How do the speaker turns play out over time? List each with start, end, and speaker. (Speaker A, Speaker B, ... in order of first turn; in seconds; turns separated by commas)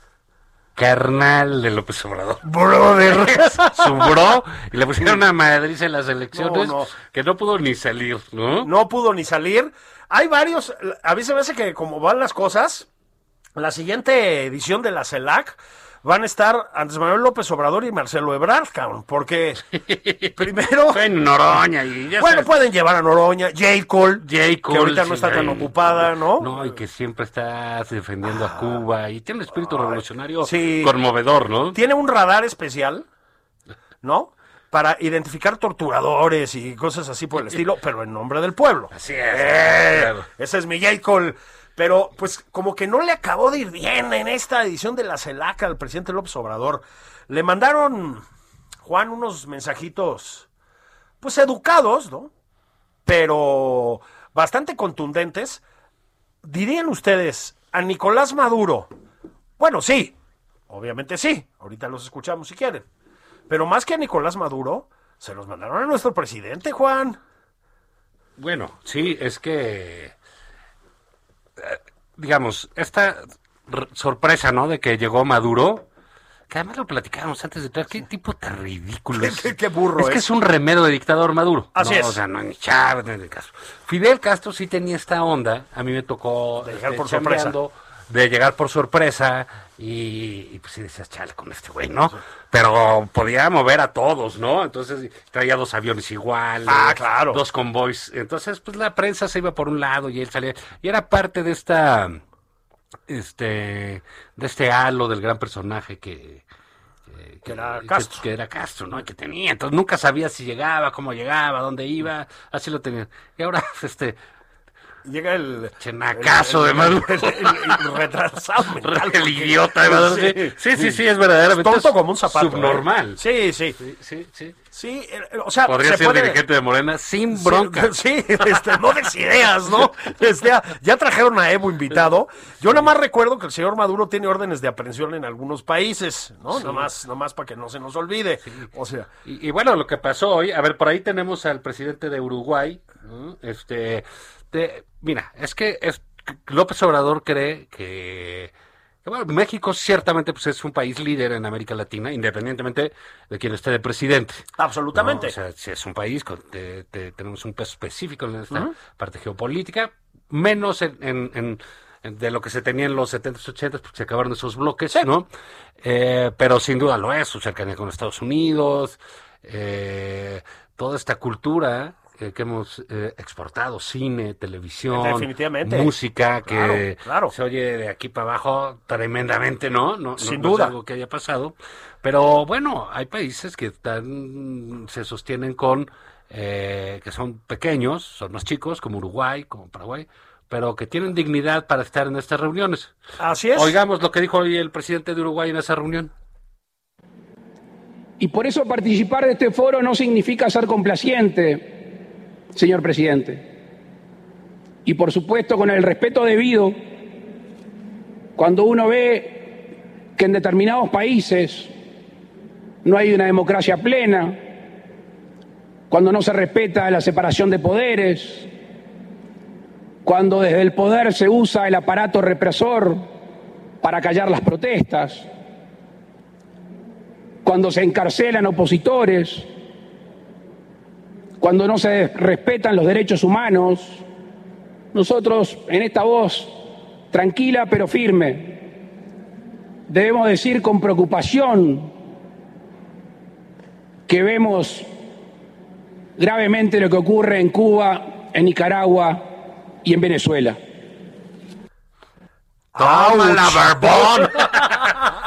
Speaker A: 0.8-8.7, Speaker B: 2.4-4.3, Speaker B: 6.3-6.9, Speaker B: 8.6-12.9, Speaker B: 13.6-19.6, Speaker A: 19.8-22.5, Speaker B: 20.4-21.0, Speaker B: 22.2-26.7, Speaker A: 24.2-31.8, Speaker B: 28.3-28.8, Speaker B: 29.6-30.9, Speaker B: 31.7-33.1, Speaker B: 34.0-48.2, Speaker A: 38.9-40.3, Speaker B: 48.9-50.5, Speaker B: 51.2-52.3, Speaker B: 53.1-55.6, Speaker B: 56.4-58.9, Speaker B: 59.6-60.1, Speaker B: 60.7-62.8, Speaker B: 63.5-67.2, Speaker A: 68.4-70.1, Speaker A: 71.6-75.9, Speaker A: 76.5-102.2, Speaker B: 79.2-80.3, Speaker B: 81.8-82.2, Speaker B: 86.6-87.5, Speaker B: 96.7-97.4, Speaker A: 103.1-106.4, Speaker A: 107.1-114.2, Speaker B: 107.5-108.2, Speaker B: 115.0-123.8, Speaker A: 115.8-117.8, Speaker A: 118.8-123.2, Speaker A: 123.8-124.6, Speaker B: 124.7-126.4, Speaker A: 125.7-127.9, Speaker B: 127.3-139.1, Speaker A: 136.5-136.9, Speaker A: 139.2-148.5, Speaker A: 149.0-165.3, Speaker B: 154.6-155.4, Speaker A: 165.8-192.9, Speaker B: 174.9-175.9, Speaker B: 176.5-177.3, Speaker B: 180.2-180.7, Speaker B: 193.2-193.8, Speaker A: 193.6-196.1, Speaker C: 198.2-201.8, Speaker C: 202.5-203.4, Speaker C: 204.8-206.8, Speaker C: 208.4-209.6, Speaker C: 210.2-211.7, Speaker C: 212.8-214.4, Speaker C: 215.9-218.5, Speaker C: 220.1-223.1, Speaker C: 223.8-225.3, Speaker C: 227.4-229.5, Speaker C: 231.4-234.0, Speaker C: 234.9-236.5, Speaker C: 237.1-238.6, Speaker C: 239.9-241.9, Speaker C: 244.1-244.9, Speaker C: 246.2-249.2, Speaker C: 249.8-250.6, Speaker B: 252.7-255.1, Speaker A: 252.8-255.0